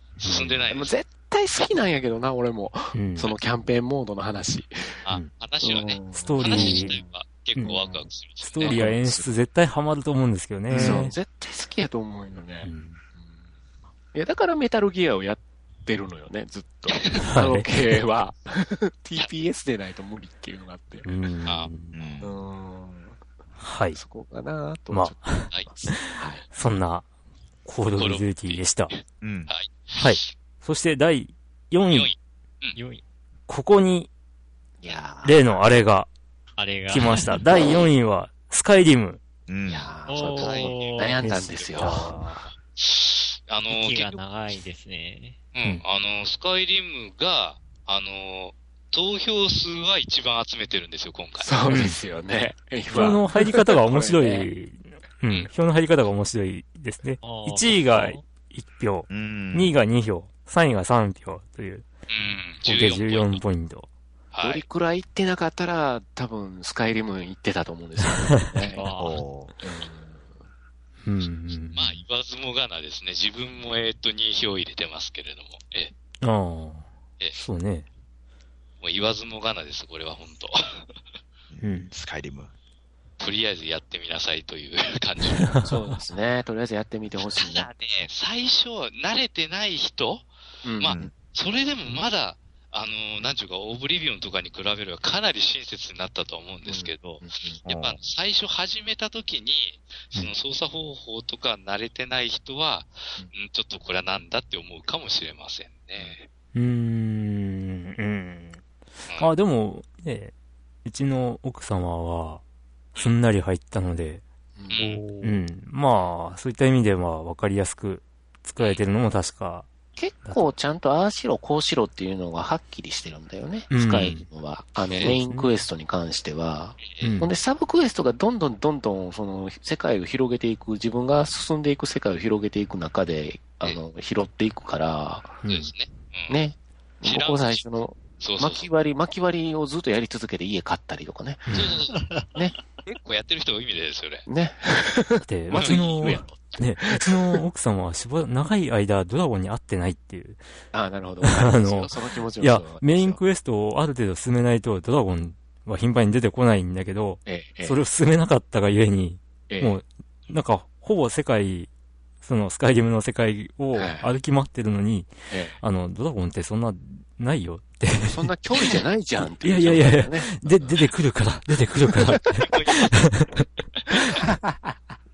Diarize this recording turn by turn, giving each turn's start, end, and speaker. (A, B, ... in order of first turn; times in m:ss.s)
0:00.2-0:00.9 A
0:00.2-0:00.6 B
0:00.7-0:04.9 C
0:02.9-0:03.3 B
0:05.0-0:08.8 A
0:05.6-0:07.1 C
0:06.1-0:07.0 B
0:07.6-0:08.0 C
0:08.4-0:11.1 B
0:08.6-0:09.3 C
0:10.7-0:13.4 C
0:12.6-0:13.0 B
0:14.1-0:21.1 C
0:16.9-0:17.2 A
0:17.2-0:17.9 B
0:21.0-0:21.9 B
0:21.5-0:22.2 A
0:21.9-0:22.3 D
0:22.2-0:23.2 C
0:23.6-0:24.0 B
0:23.9-0:26.4 C
0:24.9-0:27.1 B
0:27.6-0:28.9 B
0:28.0-0:30.3 A
0:29.2-0:29.5 D
0:29.9-0:32.1 B
0:31.9-0:32.8 A
0:32.8-0:33.0 E
0:33.5-0:34.1 B
0:34.8-0:35.6 C
0:35.2-0:36.1 B
0:36.6-0:37.4 E
0:36.9-0:39.2 B
0:39.5-0:40.0 D
0:39.7-0:42.1 C
0:40.0-0:41.2 E
0:40.1-0:42.2 A
0:41.2-0:42.5 B
0:42.8-0:44.2 A
0:43.7-0:45.4 E
0:45.5-0:51.5 A
0:51.4-0:54.5 C
0:51.7-0:52.0 B
0:52.9-1:01.9 B
0:57.2-0:58.2 E
0:59.1-0:59.7 D
1:02.1-1:03.4 A
1:02.6-1:03.9 B
1:04.3-1:04.6 A
1:04.4-1:08.8 C
1:08.7-1:09.2 E
1:08.9-1:09.5 D
1:09.6-1:10.2 C
1:11.0-1:12.0 B
1:11.7-1:15.9 A
1:16.2-1:17.9 B
1:18.8-1:20.8 A
1:21.5-1:22.5 D
1:21.6-1:21.9 B
1:23.2-1:25.5 A
1:25.5-1:25.7 B
1:25.6-1:27.7 C
1:27.4-1:46.3 A
1:30.6-1:31.0 C
1:30.9-1:31.1 D
1:36.6-1:37.6 C
1:37.6-1:38.0 D
1:46.5-1:48.6 B
1:49.2-1:50.3 B
1:50.8-1:52.4 B
1:53.0-1:54.2 B
1:54.6-1:54.8 C
1:54.7-1:55.0 A
1:54.8-1:55.4 E
1:55.2-1:59.7 B
2:00.0-2:15.4 C
2:00.2-2:00.5 B
2:03.7-2:04.2 B
2:04.9-2:05.2 A
2:05.0-2:05.5 B
2:06.8-2:07.1 A
2:07.0-2:07.3 B
2:15.4-2:15.7 B
2:15.4-2:16.4 A
2:16.3-2:21.5 C
2:17.0-2:17.6 A
2:18.2-2:18.7 A
2:21.5-2:21.7 B
2:21.5-2:22.0 A
2:21.9-2:22.4 E
2:22.9-2:24.3 A
2:24.3-2:27.4 C
2:25.2-2:30.4 B
2:30.7-2:33.2 C
2:31.2-2:41.7 B
2:37.2-2:37.8 C
2:39.5-2:39.8 C
2:42.2-2:48.6 B
2:43.7-2:44.1 C
2:45.3-2:45.6 C
2:48.0-2:50.9 C
2:49.3-2:53.4 B
2:52.2-2:53.1 A
2:54.2-2:54.7 C